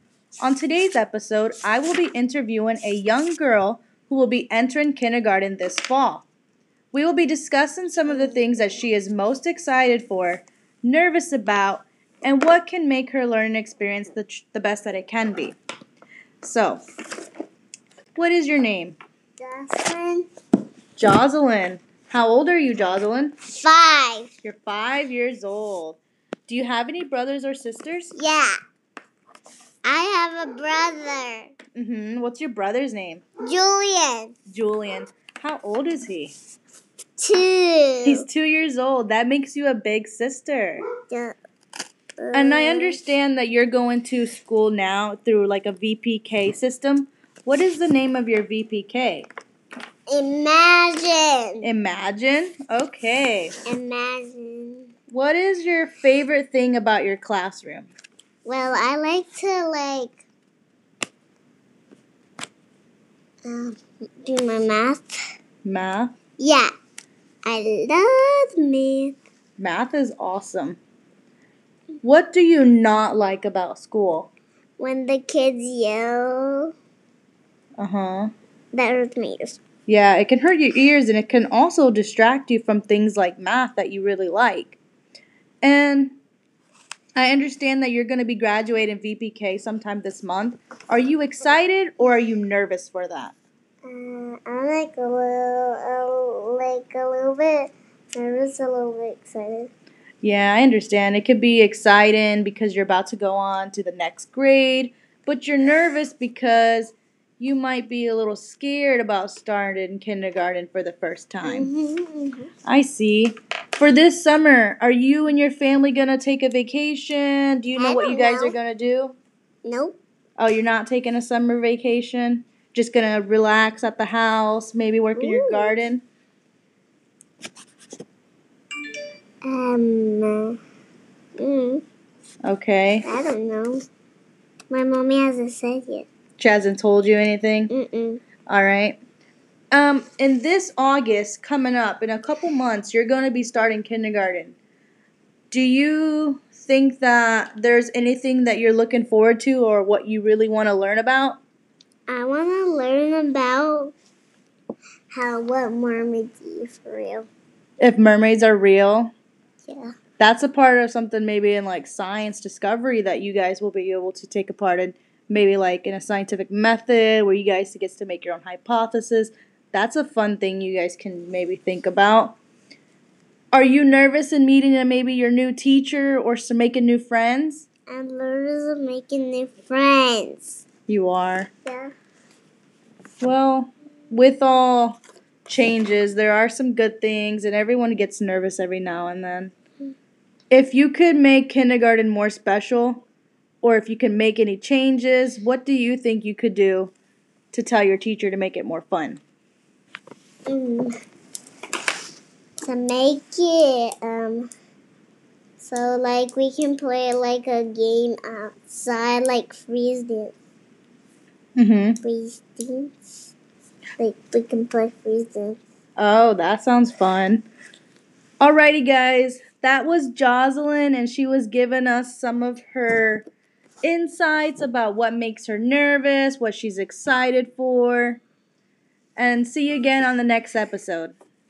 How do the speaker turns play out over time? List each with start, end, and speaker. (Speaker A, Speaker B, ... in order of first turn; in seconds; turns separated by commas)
Speaker A: 0.4-6.2, Speaker A: 6.9-15.6, Speaker B: 8.1-8.4, Speaker A: 16.4-16.8, Speaker A: 18.1-18.9, Speaker B: 19.4-20.2, Speaker A: 21.0-23.3, Speaker B: 23.5-24.3, Speaker A: 24.4-28.1, Speaker B: 28.1-28.6, Speaker B: 29.8-31.5, Speaker A: 31.7-33.2, Speaker B: 33.4-34.3, Speaker A: 34.5-36.3, Speaker B: 37.2-38.2, Speaker A: 38.0-40.8, Speaker B: 41.1-41.4, Speaker B: 42.2-43.0, Speaker A: 42.3-49.3, Speaker B: 50.1-51.7, Speaker A: 51.6-53.5, Speaker B: 53.6-54.9, Speaker A: 55.1-57.9, Speaker B: 58.4-60.1, Speaker B: 63.4-65.2, Speaker A: 65.6-66.1, Speaker B: 66.4-66.7, Speaker B: 67.5-69.2, Speaker A: 69.6-70.8, Speaker A: 72.0-74.3, Speaker B: 74.8-76.7, Speaker A: 77.8-78.3, Speaker B: 78.7-79.6, Speaker A: 79.9-84.8, Speaker A: 85.6-86.2, Speaker A: 87.2-93.3, Speaker B: 93.8-99.7, Speaker A: 100.2-111.7, Speaker B: 111.4-112.5, Speaker A: 112.7-119.2, Speaker B: 117.8-118.5, Speaker B: 119.6-120.0, Speaker A: 120.4-126.0, Speaker B: 125.2-125.8, Speaker B: 129.4-130.6, Speaker B: 131.4-131.8, Speaker A: 132.4-133.0, Speaker B: 133.0-133.8, Speaker B: 134.7-136.1, Speaker A: 136.4-137.7, Speaker B: 137.7-138.2, Speaker A: 138.5-139.0, Speaker A: 139.7-144.6, Speaker A: 145.5-151.4, Speaker B: 152.1-153.9, Speaker B: 155.1-157.3, Speaker A: 157.8-159.1, Speaker B: 159.7-159.9, Speaker A: 160.2-172.4, Speaker A: 173.5-177.7, Speaker B: 177.9-180.6, Speaker A: 180.9-181.5, Speaker B: 181.7-181.9, Speaker A: 183.2-189.5, Speaker A: 190.5-193.0, Speaker A: 193.6-196.9, Speaker A: 197.5-199.2, Speaker B: 200.5-200.9, Speaker B: 202.6-204.5, Speaker B: 205.6-210.3, Speaker A: 211.6-212.0, Speaker B: 212.0-213.1, Speaker B: 214.0-215.6, Speaker A: 216.0-217.4, Speaker A: 218.4-223.2, Speaker A: 223.8-228.2, Speaker A: 229.2-231.1